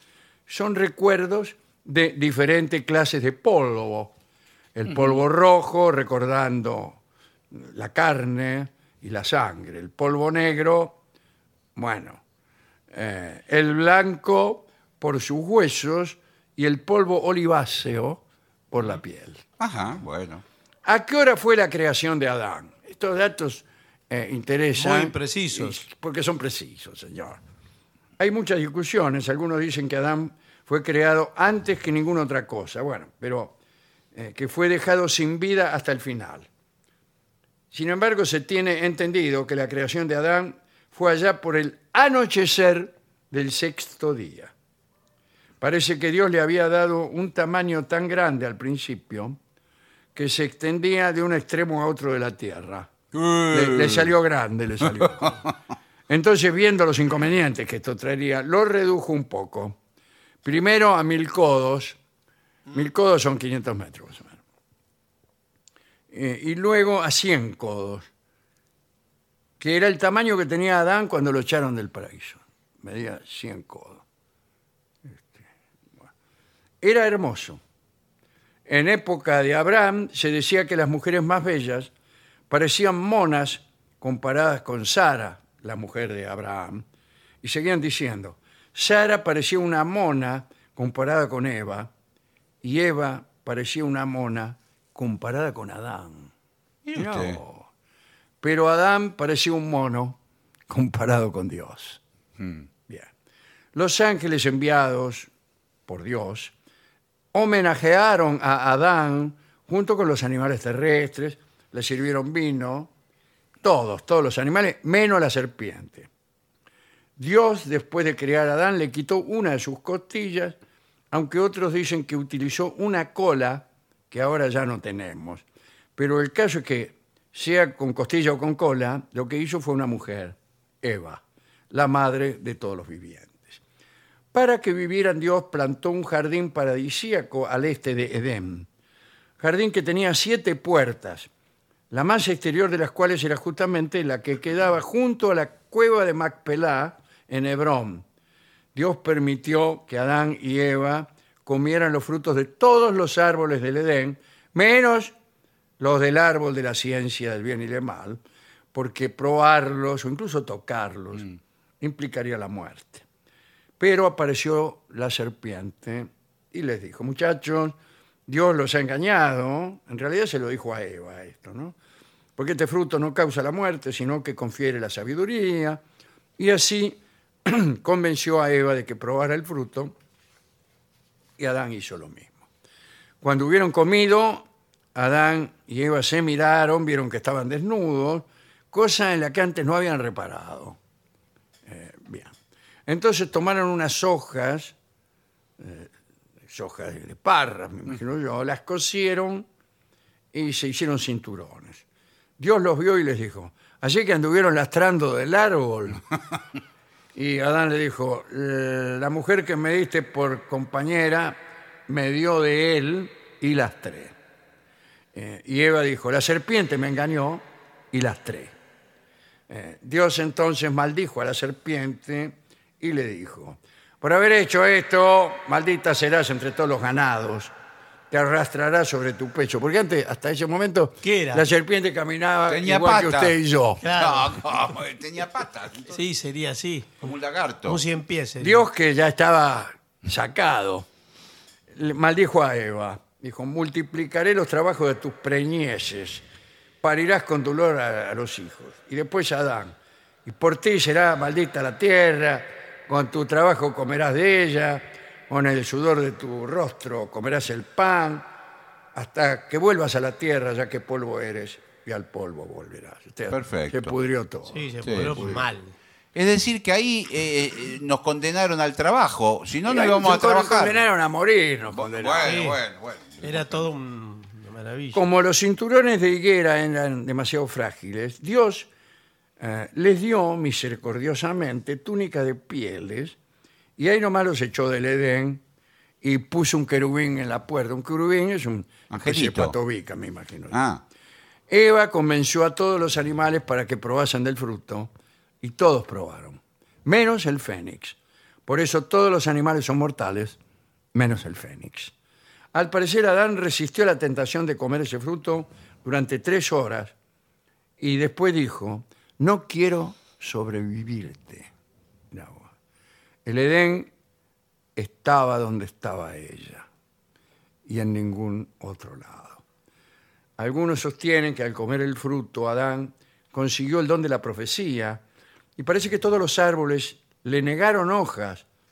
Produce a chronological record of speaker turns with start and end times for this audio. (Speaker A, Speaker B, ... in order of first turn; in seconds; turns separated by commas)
Speaker A: 0.5-4.2, Speaker A: 4.8-7.0, Speaker A: 7.5-11.0, Speaker A: 11.8-12.2, Speaker A: 12.9-19.4, Speaker B: 19.6-20.4, Speaker A: 20.9-27.4, Speaker C: 24.8-25.8, Speaker A: 28.2-33.5, Speaker A: 34.1-36.5, Speaker A: 37.7-44.5, Speaker A: 45.6-49.4, Speaker A: 50.1-53.0, Speaker B: 53.1-54.1, Speaker A: 53.5-55.5, Speaker B: 54.8-55.4, Speaker A: 56.1-59.8, Speaker A: 60.4-62.0, Speaker A: 62.7-64.4, Speaker A: 66.1-68.1, Speaker A: 69.6-74.0, Speaker A: 75.1-75.5, Speaker A: 76.8-77.6, Speaker A: 78.7-81.9, Speaker A: 82.5-86.8, Speaker A: 87.4-91.9, Speaker A: 92.6-96.3, Speaker B: 96.8-97.4, Speaker A: 97.0-97.7, Speaker A: 98.4-102.0, Speaker B: 102.4-102.7, Speaker A: 103.7-105.3, Speaker A: 105.9-106.5, Speaker A: 107.3-112.9, Speaker A: 113.6-116.1, Speaker A: 117.2-120.6, Speaker A: 121.1-125.4, Speaker A: 126.0-133.6, Speaker A: 134.3-138.7, Speaker A: 139.4-141.3, Speaker A: 141.9-148.0, Speaker A: 148.8-155.1, Speaker A: 155.8-158.2, Speaker A: 158.7-161.3, Speaker A: 161.8-163.0, Speaker A: 163.8-167.8, Speaker A: 168.3-171.8, Speaker A: 172.4-175.8, Speaker A: 176.4-179.9, Speaker A: 181.4-182.3, Speaker A: 183.2-190.8, Speaker A: 191.7-192.3, Speaker A: 192.9-194.8, Speaker A: 195.6-195.9, Speaker A: 196.5-199.5, Speaker A: 200.3-201.8, Speaker A: 202.4-206.0, Speaker A: 207.2-214.2, Speaker A: 215.1-218.5, Speaker A: 219.5-227.5, Speaker A: 228.1-233.8, Speaker C: 231.0-231.4, Speaker B: 232.5-233.4, Speaker C: 233.8-234.4, Speaker B: 233.9-236.0, Speaker C: 235.9-237.0, Speaker B: 237.0-237.8, Speaker C: 237.7-238.7, Speaker A: 238.4-240.9, Speaker A: 241.7-246.2, Speaker A: 246.8-258.3, Speaker A: 258.9-265.4, Speaker B: 263.3-263.9, Speaker C: 264.5-265.8, Speaker B: 264.8-265.4, Speaker B: 266.1-270.8, Speaker A: 269.7-272.4, Speaker B: 271.7-273.6, Speaker C: 272.2-272.6, Speaker C: 273.2-275.0, Speaker A: 274.9-278.7, Speaker A: 279.4-283.2, Speaker A: 283.8-285.4, Speaker A: 286.0-290.6, Speaker B: 288.9-289.6, Speaker B: 290.5-290.8, Speaker A: 291.5-300.4, Speaker A: 300.9-301.9, Speaker A: 302.5-306.9, Speaker A: 307.8-311.5, Speaker A: 312.1-312.5, Speaker A: 313.2-313.9, Speaker A: 314.8-316.7, Speaker A: 317.7-319.4, Speaker A: 320.4-325.0, Speaker A: 325.6-328.4